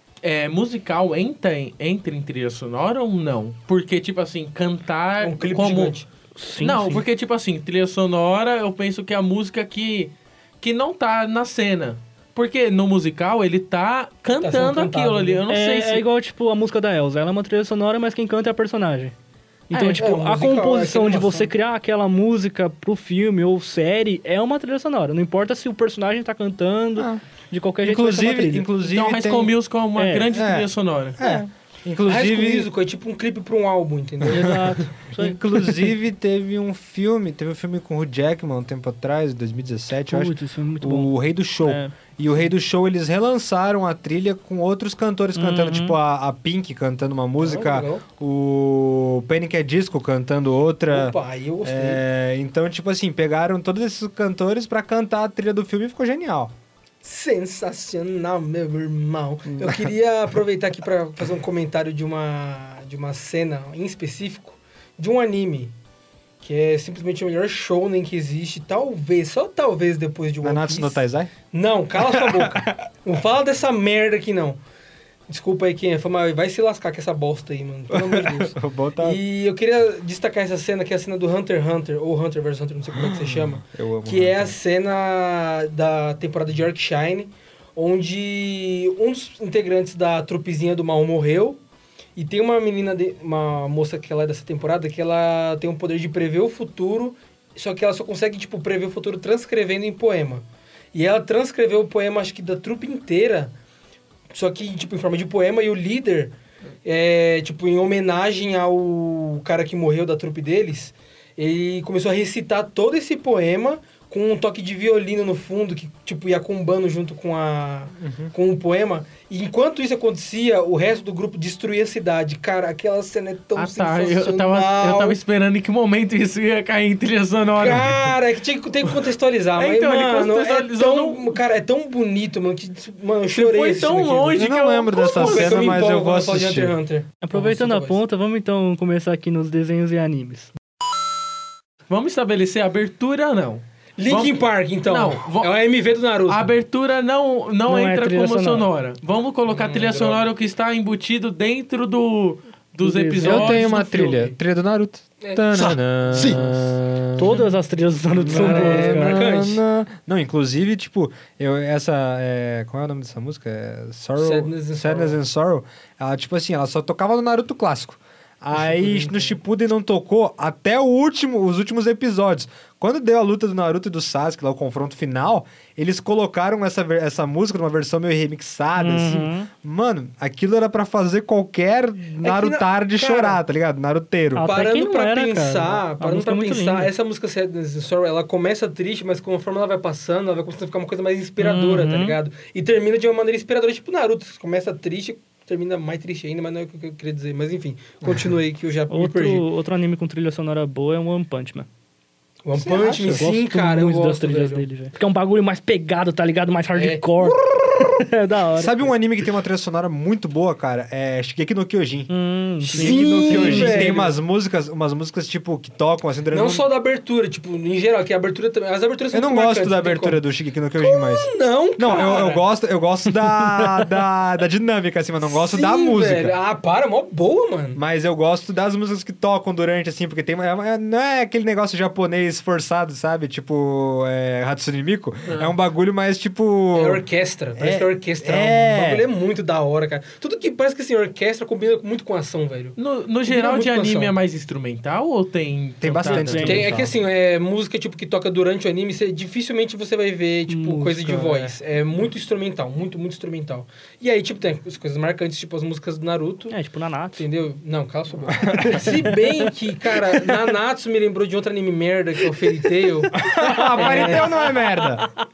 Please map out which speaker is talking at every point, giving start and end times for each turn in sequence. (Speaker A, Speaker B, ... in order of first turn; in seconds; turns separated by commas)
Speaker A: 0.2-6.0, Speaker B: 5.2-6.1, Speaker C: 6.4-7.0, Speaker A: 6.6-16.1, Speaker B: 14.4-15.4, Speaker C: 15.5-19.1, Speaker C: 19.7-28.7, Speaker B: 19.7-21.5, Speaker D: 27.0-27.2, Speaker D: 27.8-29.5, Speaker A: 28.9-31.2, Speaker C: 30.0-30.3, Speaker D: 30.3-32.7, Speaker B: 32.1-34.8, Speaker D: 34.2-56.5, Speaker C: 34.3-35.9, Speaker C: 40.1-41.9, Speaker C: 45.4-46.0, Speaker B: 47.4-48.0, Speaker B: 50.9-52.0, Speaker B: 57.0-65.7, Speaker B: 66.4-74.6, Speaker D: 70.4-71.3, Speaker D: 72.0-72.8, Speaker B: 75.3-91.6, Speaker D: 77.9-79.2, Speaker D: 82.9-84.6, Speaker B: 92.2-103.5, Speaker B: 104.3-125.2, Speaker D: 118.0-118.3, Speaker A: 123.5-128.2, Speaker B: 127.6-138.0, Speaker A: 129.6-131.4, Speaker A: 133.3-135.8, Speaker D: 134.3-136.8, Speaker C: 137.2-140.5, Speaker A: 141.9-145.5, Speaker B: 144.0-146.5, Speaker A: 146.3-154.3, Speaker C: 147.7-148.7, Speaker B: 149.5-150.3, Speaker C: 152.8-154.0, Speaker D: 153.2-157.3, Speaker B: 155.2-156.8, Speaker C: 157.2-159.4, Speaker D: 158.1-184.5, Speaker B: 158.2-159.6, Speaker B: 164.2-165.2, Speaker B: 168.6-169.3, Speaker C: 178.8-179.5, Speaker B: 182.2-183.4, Speaker C: 184.3-186.9, Speaker B: 184.4-199.5, Speaker C: 191.4-192.2, Speaker D: 198.0-198.3, Speaker C: 198.9-201.7, Speaker B: 202.4-204.7, Speaker D: 202.6-203.3, Speaker C: 203.1-208.9, Speaker B: 206.8-208.0, Speaker D: 208.6-212.1, Speaker C: 212.1-214.0, Speaker D: 212.6-216.7, Speaker B: 212.7-214.2, Speaker B: 216.3-220.2, Speaker D: 219.1-226.3, Speaker B: 220.8-222.4, Speaker C: 223.4-223.8, Speaker B: 225.3-227.8, Speaker D: 227.8-237.0, Speaker A: 235.3-235.6, Speaker B: 236.7-242.8, Speaker D: 237.6-239.1, Speaker A: 242.8-246.7, Speaker B: 243.3-244.2, Speaker D: 245.8-246.9, Speaker C: 246.1-246.8, Speaker B: 246.4-256.6, Speaker C: 250.5-251.5, Speaker C: 256.5-257.3, Speaker B: 257.2-263.2, Speaker D: 258.3-258.9, Speaker C: 258.7-259.1, Speaker D: 263.1-265.1, Speaker C: 263.2-265.1, Speaker B: 263.8-264.3